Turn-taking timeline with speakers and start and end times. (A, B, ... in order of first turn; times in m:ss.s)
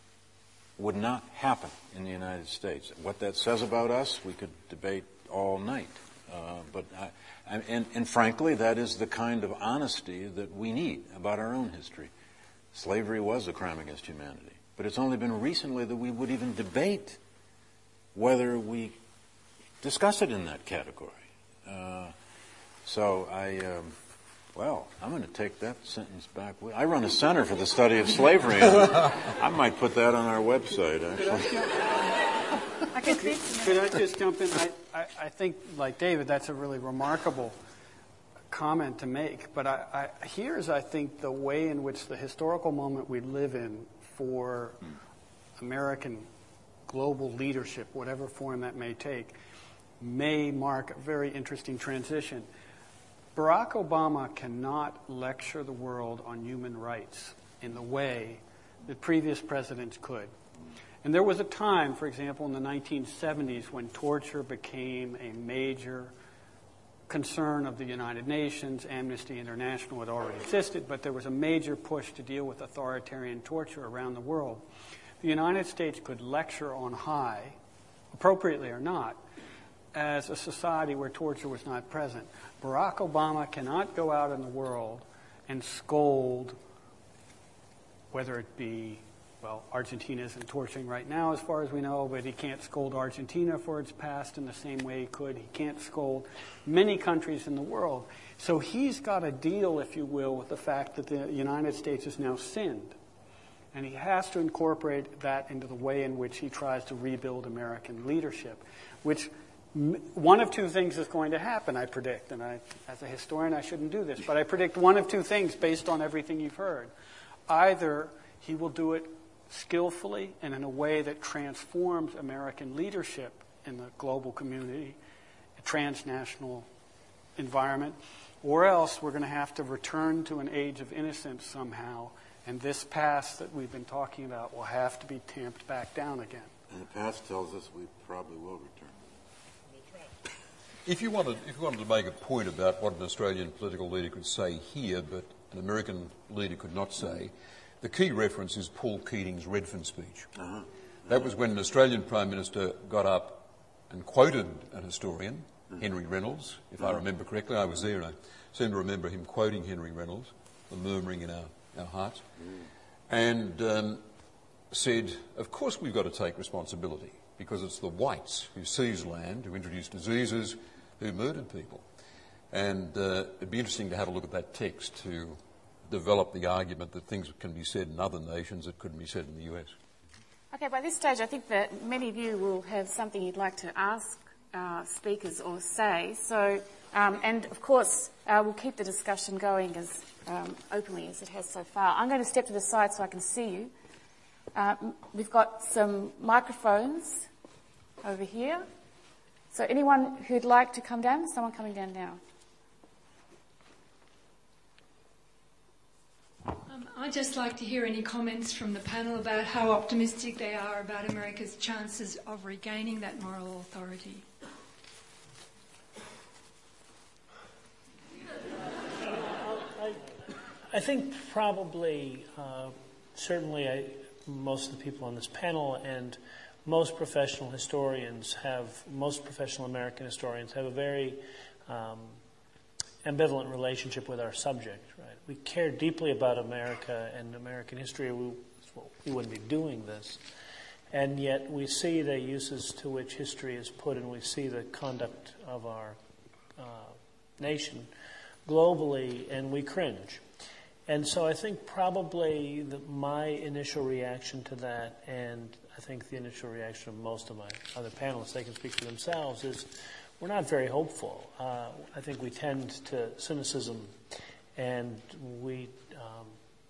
0:00.8-0:12.1 A
0:12.7-0:17.2 A
0:18.1-0:19.0 A
0:19.8-0:22.1 A
0:22.8-0:24.0 A
0:24.5-0:31.8 A
0:31.2-0:31.8 B
0:32.9-0:34.0 C
0:33.1-0:37.6 B
0:38.5-0:44.8 B
0:45.6-0:46.3 B
0:46.9-0:49.4 B
0:50.0-0:52.5 B
0:53.3-1:00.3 B
1:01.0-1:06.1 B
1:07.1-1:14.6 B
1:15.2-1:17.6 B
1:18.1-1:19.2 B
1:19.9-1:26.6 B
1:28.1-1:43.0 B
1:43.7-1:56.9 B
1:57.5-2:05.0 B
2:05.6-2:06.7 B
2:07.4-2:16.5 B
2:16.7-2:19.1 A
2:19.7-2:20.1 D
2:20.8-2:30.3 E
2:30.4-2:31.2 A
2:31.1-2:42.2 E
2:43.1-2:44.0 E
2:44.7-2:51.8 E
2:52.5-2:59.7 E
3:00.5-3:13.7 C
3:14.5-3:17.3 C
3:18.0-3:18.7 C
3:19.5-3:22.2 C
3:26.6-3:34.3 F
3:39.0-3:40.1 D
3:40.7-3:52.2 D
3:53.0-4:00.2 D
4:00.9-4:06.0 D
4:06.6-4:07.9 D
4:08.4-4:10.2 D
4:10.9-4:23.9 D
4:24.6-4:26.4 D